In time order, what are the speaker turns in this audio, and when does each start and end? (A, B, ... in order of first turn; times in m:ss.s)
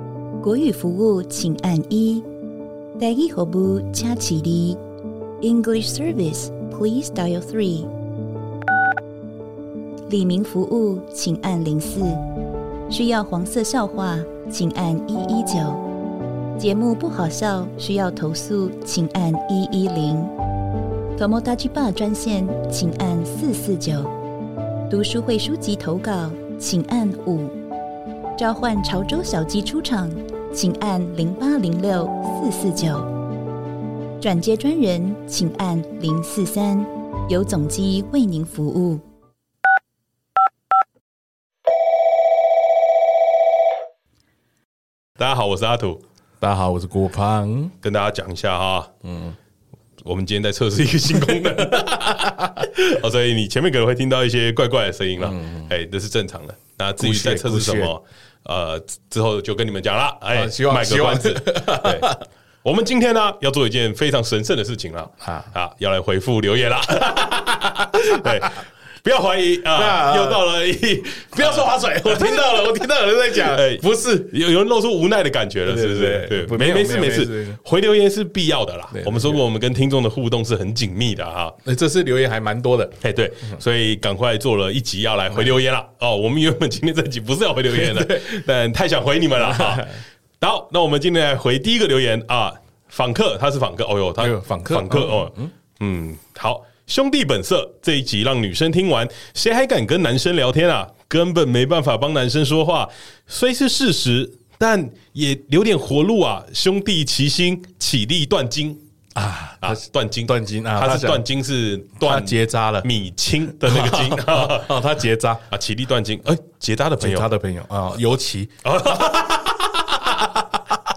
0:00.4-0:02.2 A
0:03.0-0:04.8 A
0:05.4-0:07.9 A
0:10.1-0:12.2 A
0:12.9-0:15.8 A
0:16.6-0:20.3 A
0:21.2-0:24.1 A
0:24.9-0:27.6 A
0:28.4-0:33.1 A
0:34.2-0:39.0 A
0:45.2-0:46.0 B
0:46.4-0:47.7 C
0:47.8-0:48.9 B
0:49.0-0:49.3 C
0:50.0-1:12.8 B
0:51.6-0:52.5 C
0:55.2-0:55.7 C
0:57.0-0:57.9 C
1:00.3-1:02.2 C
1:05.2-1:05.5 C
1:07.1-1:08.4 C
1:09.7-1:10.4 C
1:11.3-1:14.3 C
1:13.3-1:21.6 B
1:15.6-1:17.6 C
1:18.9-1:19.4 C
1:21.6-1:23.0 C
1:23.0-1:48.8 B
1:27.7-1:28.2 C
1:29.4-1:29.9 C
1:34.2-1:35.5 C
1:49.1-1:51.2 C
1:49.6-1:54.8 B
1:52.0-1:52.9 C
1:53.6-1:55.4 C
1:55.5-1:57.3 B
1:57.0-1:59.2 C
1:58.6-2:00.0 B
2:00.0-2:00.4 C